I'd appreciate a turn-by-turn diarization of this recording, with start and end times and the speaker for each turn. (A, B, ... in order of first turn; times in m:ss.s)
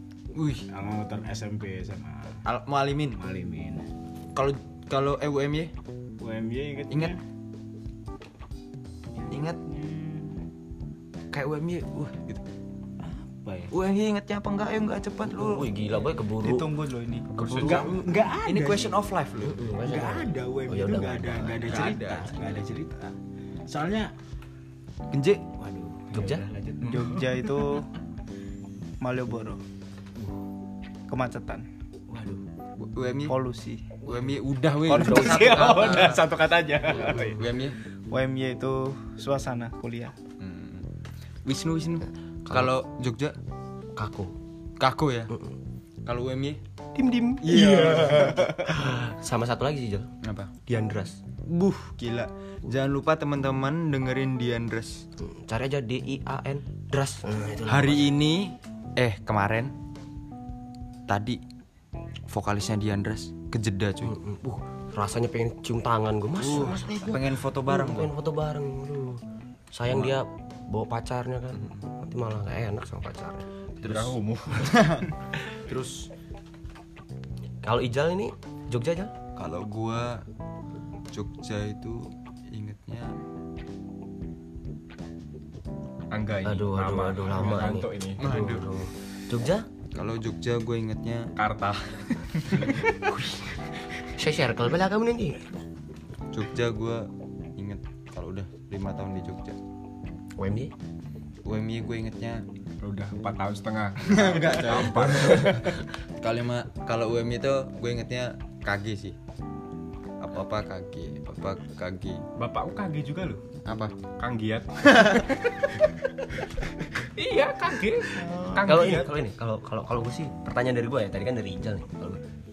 0:00.3-0:00.7 A
0:00.7-0:02.4 B
0:02.5-0:03.2 A
0:03.2-0:03.8 B
0:04.4-0:05.7 A
0:06.2-0:07.2 B
0:09.3-0:10.3 B
0:09.3-0:09.6 A
0:11.3-0:12.4 A
0:13.0-0:13.7 B
0:13.7-0:15.8 A
0:15.3-0:16.7 C
0:16.4-0:17.7 D
0:17.3-0:18.1 C
0:17.5-0:19.6 A
0:17.5-0:18.9 B
0:19.4-0:21.9 C
0:19.8-0:23.2 B
0:21.6-0:22.4 A
0:23.7-0:24.1 B
0:25.1-0:25.4 A
0:25.6-0:27.8 B
0:26.1-0:26.5 C
0:26.8-0:27.9 D
0:29.0-0:29.6 D
0:31.1-0:31.7 D
0:32.1-0:32.4 B
0:32.8-0:33.4 A
0:33.3-0:34.0 D
0:34.0-0:36.2 A
0:34.9-0:35.7 D
0:34.9-0:37.4 B
0:37.0-0:37.8 A
0:38.1-0:40.2 D
0:40.4-0:40.9 A
0:41.4-0:43.4 A
0:42.5-0:42.7 C
0:44.0-0:44.3 C
0:44.8-0:45.3 A
0:45.3-0:45.6 C
0:46.0-0:46.6 A
0:47.0-0:50.1 C
0:47.4-0:48.7 A
0:47.5-0:48.3 B
0:50.2-0:50.5 A
0:50.7-0:51.2 C
0:51.5-0:55.0 A
0:55.2-0:58.2 C
0:57.7-0:59.7 A
1:01.1-1:01.4 A
1:02.3-1:04.1 A
1:04.0-1:09.2 C
1:06.4-1:08.1 A
1:09.7-1:14.1 C
1:11.6-1:11.8 A
1:13.8-1:14.7 E
1:14.6-1:16.1 A
1:17.6-1:19.1 C
1:19.4-1:20.2 A
1:21.1-1:23.2 A
1:26.1-1:28.2 E
1:26.4-1:29.7 C
1:28.2-1:28.8 A
1:29.9-1:31.3 A
1:31.4-1:32.6 E
1:33.0-1:35.5 C
1:36.3-1:39.6 A
1:40.4-1:40.7 C
1:41.5-1:42.4 A
1:42.8-1:45.8 E
1:44.1-1:49.2 A
1:50.2-1:52.2 A
1:52.4-1:53.4 E
1:53.7-1:53.9 A
1:54.2-1:55.1 E
1:55.0-1:55.3 A
1:57.0-1:59.1 E
1:58.2-1:59.0 A
1:58.6-2:02.2 C